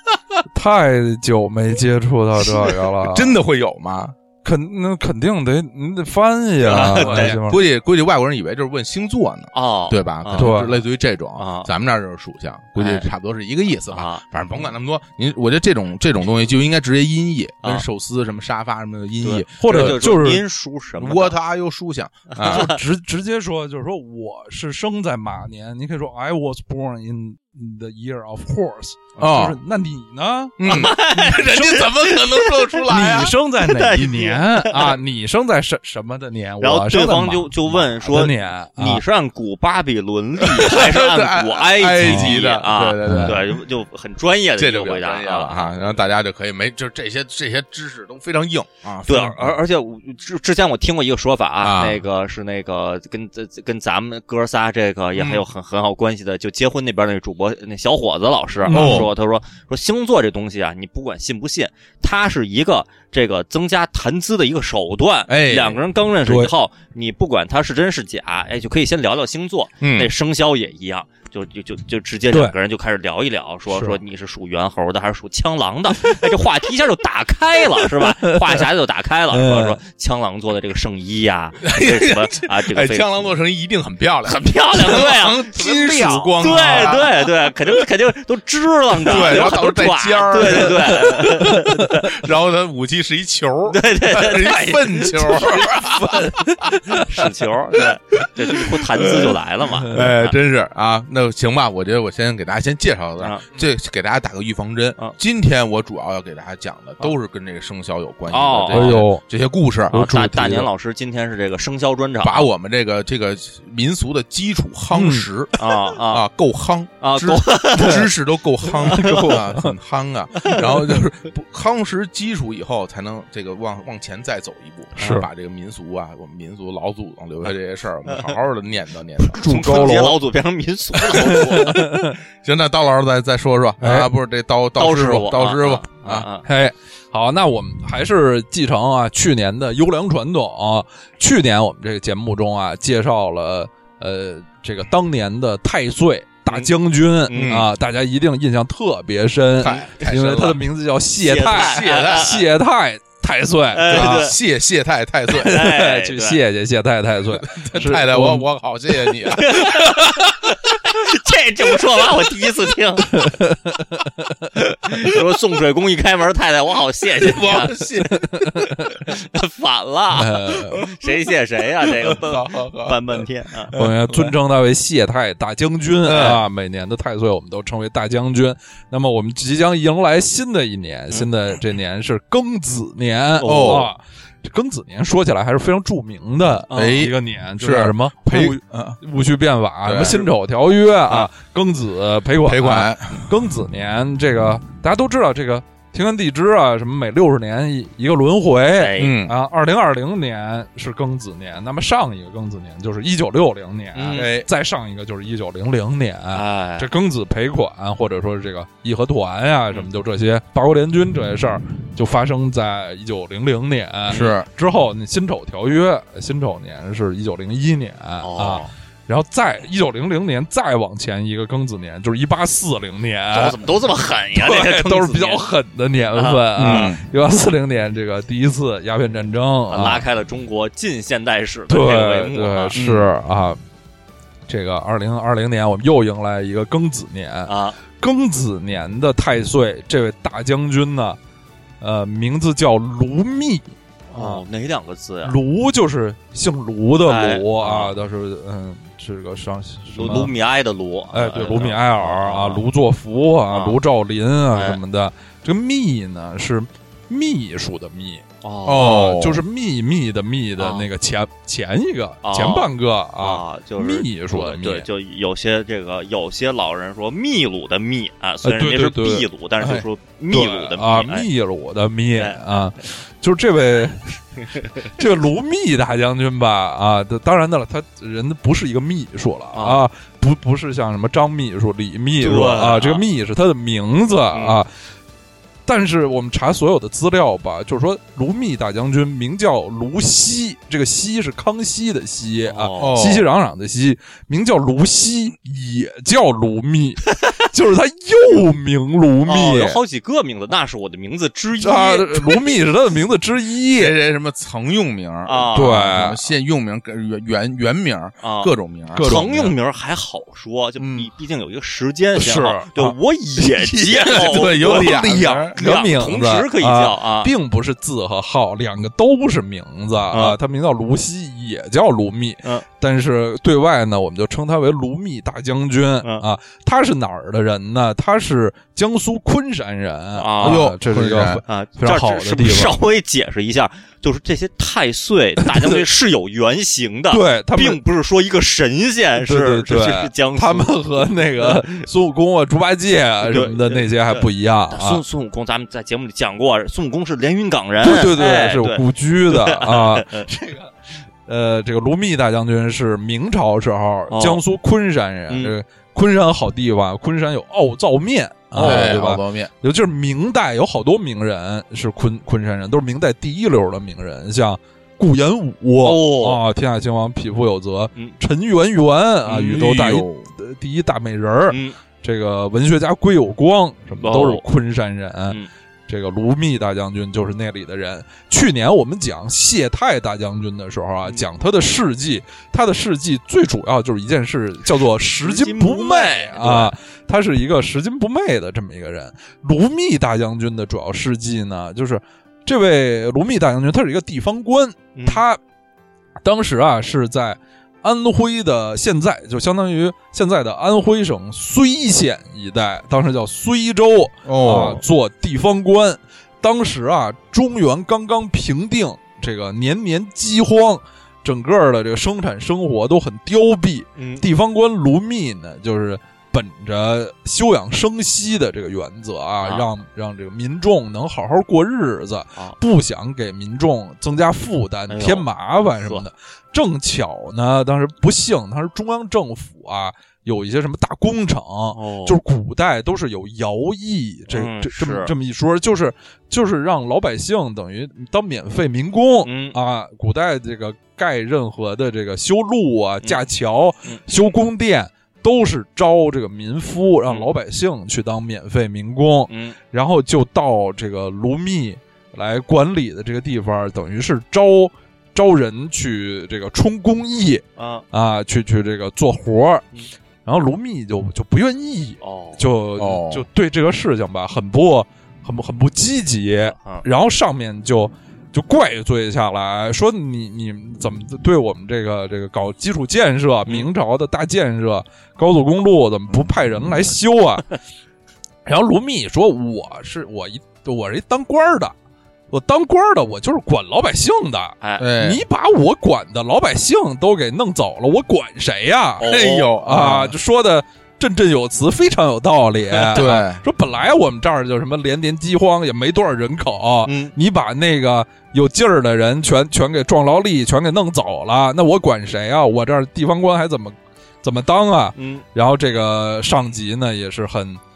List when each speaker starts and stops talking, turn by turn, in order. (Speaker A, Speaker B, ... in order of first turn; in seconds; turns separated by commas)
Speaker A: 0.5-3.4, Speaker B: 3.0-4.1, Speaker A: 4.4-7.6, Speaker B: 6.6-20.1, Speaker C: 6.7-7.4, Speaker C: 9.5-10.5, Speaker A: 10.3-10.8, Speaker C: 11.4-11.7, Speaker C: 12.8-13.1, Speaker C: 13.9-14.2, Speaker C: 19.2-21.4, Speaker A: 19.6-20.4, Speaker B: 21.0-22.7, Speaker C: 22.3-22.8, Speaker A: 22.4-30.6, Speaker B: 29.2-29.6, Speaker B: 30.6-33.3, Speaker C: 30.6-32.8, Speaker A: 32.9-39.0, Speaker C: 33.6-35.0, Speaker C: 36.6-46.0, Speaker B: 40.4-43.6, Speaker A: 42.0-42.3, Speaker A: 43.0-43.4, Speaker B: 44.6-49.6, Speaker C: 49.1-83.3, Speaker B: 51.6-52.0, Speaker B: 55.1-55.5, Speaker A: 58.6-59.1, Speaker B: 58.7-59.1, Speaker B: 65.3-65.8, Speaker A: 66.2-66.5, Speaker B: 69.8-70.1, Speaker A: 73.7-74.0, Speaker A: 77.8-78.6, Speaker A: 79.3-79.8, Speaker B: 81.6-87.3, Speaker C: 84.2-92.1, Speaker B: 89.0-96.8, Speaker A: 90.6-91.9, Speaker C: 93.7-95.7, Speaker A: 96.0-97.2, Speaker C: 97.0-100.4, Speaker B: 98.5-110.1, Speaker C: 103.2-103.5, Speaker C: 108.3-109.1, Speaker A: 108.7-109.2, Speaker C: 109.9-112.5, Speaker A: 109.9-110.7, Speaker B: 112.2-129.9, Speaker A: 114.9-115.3, Speaker C: 115.6-116.2, Speaker C: 117.0-118.1, Speaker A: 118.8-119.7, Speaker C: 118.8-119.4, Speaker A: 125.0-125.2, Speaker C: 125.0-125.2, Speaker C: 128.1-128.4, Speaker C: 129.3-131.8, Speaker A: 129.3-130.2, Speaker A: 131.0-132.2, Speaker B: 131.2-131.5, Speaker B: 132.3-136.3, Speaker A: 133.8-134.1, Speaker C: 134.8-136.4, Speaker A: 136.4-154.3, Speaker C: 147.3-147.6, Speaker B: 147.3-147.7, Speaker B: 149.6-150.6, Speaker C: 149.6-150.4, Speaker C: 151.2-152.4, Speaker B: 151.4-152.4, Speaker C: 153.7-154.4, Speaker B: 153.9-155.6, Speaker A: 155.3-158.5, Speaker C: 155.4-156.4, Speaker B: 157.3-159.7, Speaker C: 159.3-163.3, Speaker A: 163.1-164.4, Speaker C: 164.8-167.7, Speaker B: 167.2-168.9, Speaker A: 168.1-168.7, Speaker C: 169.0-173.7, Speaker A: 170.2-170.8, Speaker B: 171.8-174.3, Speaker A: 173.7-223.6, Speaker B: 176.1-176.4, Speaker C: 183.4-183.8, Speaker B: 183.4-183.9, Speaker C: 186.7-187.1, Speaker B: 186.7-189.0, Speaker B: 189.8-190.2, Speaker B: 192.4-193.3, Speaker C: 198.7-199.2, Speaker B: 199.0-199.3, Speaker C: 203.9-204.3, Speaker B: 204.1-204.5, Speaker C: 206.3-206.9, Speaker B: 214.1-214.5, Speaker C: 218.2-218.7, Speaker C: 223.3-225.4, Speaker A: 224.3-230.0, Speaker C: 226.1-226.9, Speaker B: 226.6-227.0, Speaker C: 229.7-232.8, Speaker A: 231.7-233.6, Speaker B: 232.8-233.1, Speaker A: 234.5-241.2, Speaker C: 237.5-237.8, Speaker A: 241.8-244.4, Speaker C: 244.1-245.3, Speaker A: 245.2-250.3, Speaker C: 247.1-247.9, Speaker C: 249.9-252.6, Speaker A: 251.1-264.9, Speaker C: 253.5-253.8, Speaker C: 254.5-254.8, Speaker C: 258.4-258.9, Speaker B: 258.6-259.4, Speaker C: 260.6-260.9, Speaker C: 262.2-271.2, Speaker A: 268.4-274.2, Speaker C: 272.1-272.4, Speaker C: 274.4-274.9, Speaker A: 274.8-284.7, Speaker C: 279.5-279.8, Speaker C: 282.2-283.0, Speaker C: 284.3-284.6, Speaker A: 285.6-299.8, Speaker C: 292.4-293.0, Speaker B: 292.8-293.3, Speaker C: 299.3-302.4, Speaker A: 301.6-304.0, Speaker B: 303.7-309.5, Speaker C: 305.2-306.0, Speaker A: 305.5-306.2, Speaker C: 308.2-315.0, Speaker A: 308.9-309.5, Speaker B: 310.8-311.1, Speaker A: 312.1-312.9, Speaker B: 313.8-315.7, Speaker A: 313.8-332.8, Speaker C: 315.5-317.3, Speaker C: 320.1-320.4, Speaker C: 330.1-330.7, Speaker B: 330.4-331.4, Speaker C: 331.5-341.8, Speaker A: 335.4-335.8, Speaker A: 337.1-337.8, Speaker A: 339.2-345.0, Speaker C: 343.2-350.3, Speaker A: 347.8-350.7, Speaker A: 351.2-395.4, Speaker C: 354.1-354.4, Speaker C: 355.3-355.5, Speaker B: 358.5-359.5, Speaker C: 358.6-359.0, Speaker C: 365.8-366.4, Speaker B: 369.3-370.3, Speaker C: 371.5-371.8, Speaker C: 374.0-374.4, Speaker C: 385.2-386.7, Speaker C: 394.9-395.2, Speaker A: 396.2-459.6, Speaker B: 404.2-404.8, Speaker C: 414.0-414.2, Speaker C: 419.4-419.7, Speaker C: 424.9-425.2, Speaker C: 431.7-432.2, Speaker C: 434.3-435.1, Speaker C: 439.2-439.6, Speaker C: 449.3-449.6, Speaker C: 457.6-457.8, Speaker A: 460.2-477.5, Speaker C: 462.0-462.4, Speaker B: 462.8-463.2, Speaker C: 466.5-466.8, Speaker A: 478.4-481.7, Speaker A: 482.3-489.1, Speaker C: 484.6-484.9, Speaker B: 484.8-485.2, Speaker C: 489.0-489.5, Speaker B: 489.0-490.1, Speaker A: 489.6-507.6, Speaker C: 492.7-493.0, Speaker B: 492.9-493.4, Speaker C: 496.8-497.1, Speaker C: 504.9-505.2